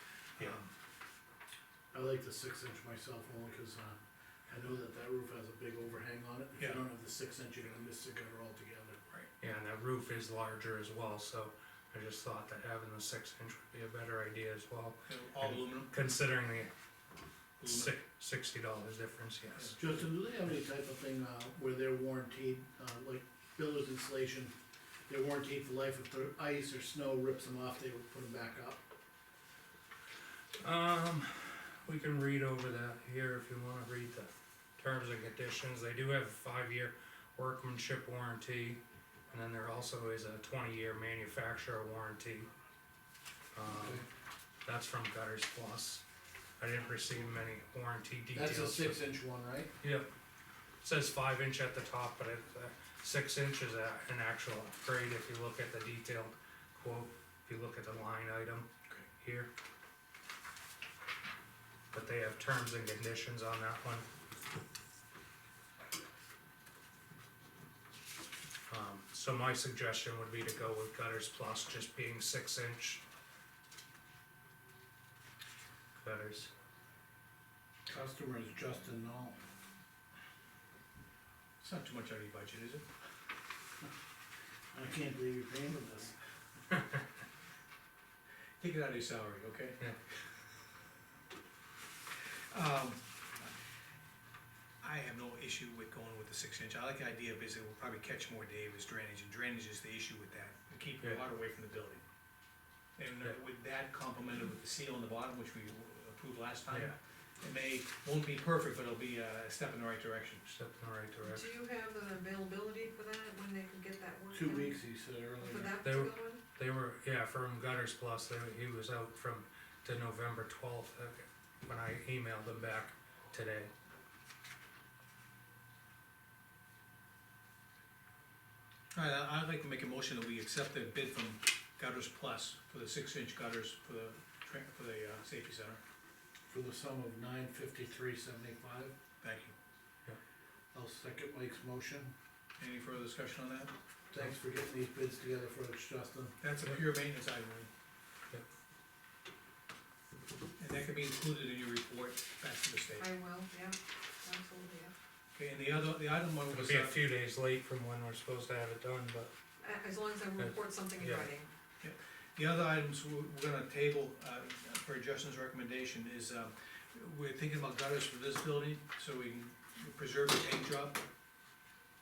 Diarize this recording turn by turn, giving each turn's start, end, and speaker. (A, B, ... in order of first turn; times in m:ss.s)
0:00.4-0:00.7 A
0:01.9-0:09.0 B
0:06.6-0:06.8 A
0:09.4-0:16.7 C
0:15.1-0:15.9 A
0:17.6-0:17.9 A
0:17.6-0:19.8 C
0:19.8-0:24.5 B
0:25.1-0:28.8 B
0:30.6-0:42.5 C
0:43.5-0:44.1 C
0:43.7-0:44.0 B
0:44.6-0:46.0 C
0:46.6-0:49.0 C
0:48.3-0:49.7 B
0:49.8-0:50.1 C
0:50.8-0:58.7 C
0:59.2-0:59.5 C
1:01.9-1:04.1 C
1:08.7-1:13.0 C
1:16.0-1:16.5 C
1:17.9-1:19.4 B
1:21.6-1:22.8 A
1:24.7-1:26.2 B
1:28.6-1:30.0 A
1:32.5-1:33.5 A
1:34.8-1:42.0 A
1:43.0-1:50.5 A
1:46.7-1:47.0 C
1:50.5-1:51.5 C
1:51.3-1:54.8 D
1:54.3-1:55.8 B
1:55.4-1:56.4 D
1:55.8-2:03.7 C
2:08.9-2:15.8 A
2:16.5-2:19.0 B
2:19.2-2:19.6 A
2:20.7-2:22.1 B
2:22.6-2:23.7 A
2:24.1-2:26.4 B
2:26.4-2:27.7 A
2:30.6-2:33.1 A
2:33.0-2:34.9 D
2:35.4-2:37.0 A
2:36.5-2:39.3 C
2:39.6-2:41.5 D
2:40.4-2:41.3 C
2:41.8-2:51.0 A